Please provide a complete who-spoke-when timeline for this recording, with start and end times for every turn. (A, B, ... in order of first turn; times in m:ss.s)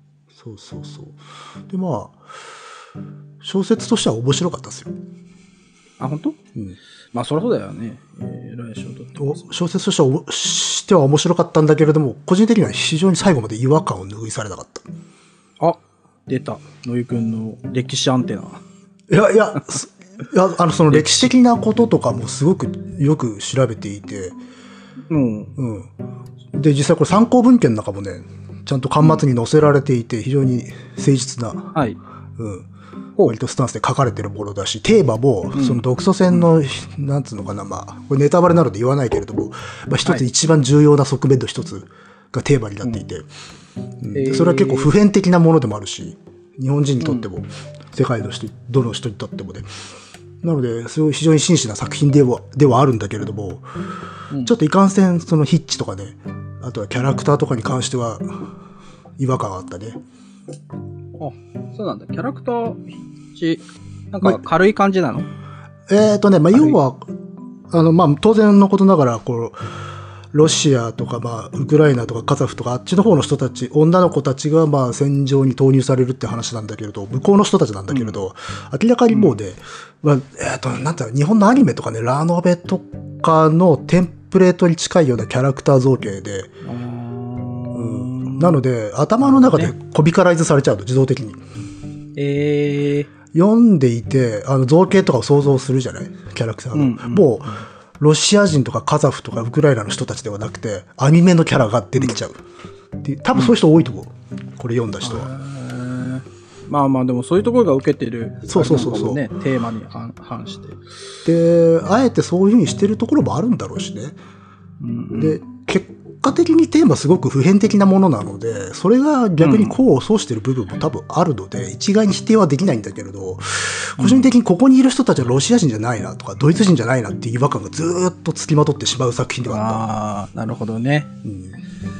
0:00.3-0:02.2 A
0:03.4-0:04.9 A
0:06.0-0:06.4 B
0:07.1-0:09.5 B
0:09.2-0:14.8 A
0:15.6-0:18.6 B
0:19.1-0:24.4 A
0:20.9-0:21.3 B
0:25.1-0:25.6 B
0:25.6-0:25.9 A
0:26.5-0:31.7 A
0:31.7-0:32.0 B
0:32.4-0:32.7 A
0:33.2-0:43.3 A
0:35.5-0:36.4 B
0:44.0-0:49.7 A
0:44.1-0:44.9 B
0:47.0-0:47.3 B
0:50.4-0:53.6 A
0:54.4-0:58.5 A
0:59.2-1:00.0 A
1:01.2-1:05.3 B
1:05.9-1:07.1 A
1:06.5-1:06.8 B
1:07.7-1:09.6 A
1:10.3-1:26.5 A
1:17.9-1:18.2 B
1:19.1-1:19.4 B
1:26.6-1:28.6 B
1:27.7-1:31.4 A
1:29.2-1:29.7 B
1:32.2-1:33.1 B
1:33.3-1:42.4 A
1:36.7-1:37.7 B
1:43.0-1:45.3 A
1:45.0-1:50.8 B
1:48.4-1:49.2 A
1:51.2-1:54.2 A
1:54.8-1:55.4 B
1:55.2-2:09.8 A
1:59.4-1:59.8 B
2:04.0-2:04.3 B
2:09.4-2:11.1 B
2:11.2-2:11.6 A